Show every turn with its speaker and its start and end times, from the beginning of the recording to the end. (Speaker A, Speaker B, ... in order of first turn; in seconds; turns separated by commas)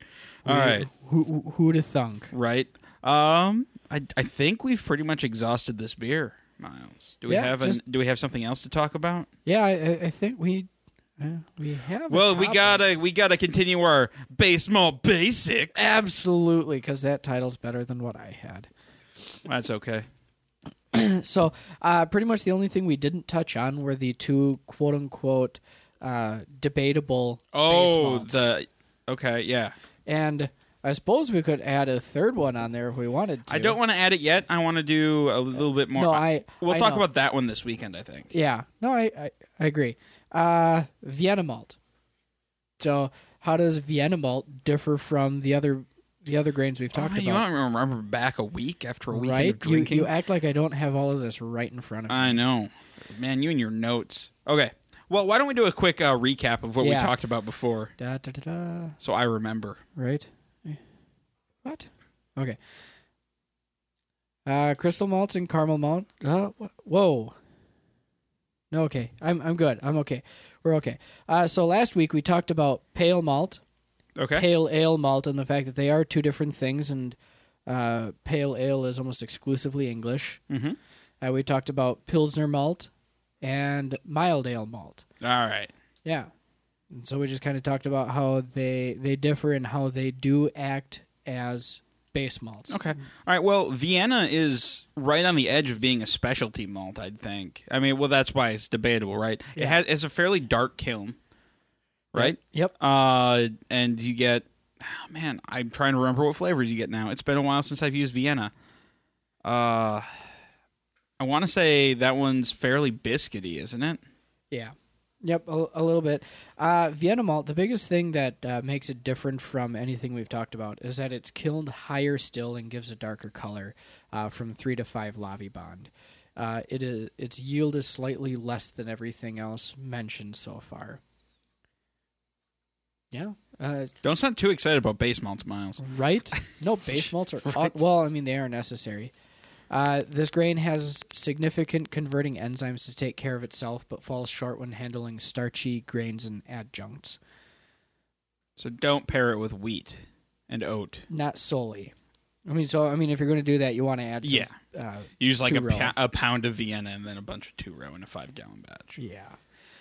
Speaker A: 0.5-0.9, Speaker B: 0.5-2.3, Speaker A: 2.3-9.3, Speaker B: 7.3-7.8, Speaker B: 9.5-12.8, Speaker A: 12.1-15.9, Speaker B: 15.7-18.7, Speaker A: 19.5-20.1, Speaker B: 20.9-28.5, Speaker A: 27.5-29.8, Speaker B: 30.1-33.8, Speaker A: 33.5-38.3, Speaker B: 36.0-37.1, Speaker B: 38.3-41.8, Speaker B: 42.8-47.4, Speaker A: 47.0-50.1, Speaker B: 49.1-52.4, Speaker A: 52.1-57.9, Speaker B: 56.8-57.1, Speaker B: 58.0-59.0, Speaker A: 59.0-59.8, Speaker B: 60.0-60.8, Speaker B: 61.6-62.6, Speaker B: 64.5-67.4, Speaker B: 68.7-73.6, Speaker A: 74.2-74.5, Speaker B: 74.3-80.4, Speaker A: 80.5-80.8, Speaker B: 81.2-82.9, Speaker B: 83.4-85.0, Speaker A: 85.2-85.7, Speaker B: 86.0-86.3, Speaker B: 86.9-92.8, Speaker A: 92.7-101.2, Speaker B: 102.1-102.7, Speaker A: 102.2-108.5, Speaker A: 109.4-110.1, Speaker A: 111.2-114.0, Speaker B: 114.5-131.0, Speaker B: 133.1-133.9, Speaker A: 134.0-136.4, Speaker B: 135.8-139.1, Speaker B: 139.7-147.2, Speaker A: 148.6-151.1, Speaker B: 151.1-151.9, Speaker B: 152.5-155.9, Speaker A: 154.2-154.5, Speaker A: 155.2-159.0, Speaker B: 159.0-159.4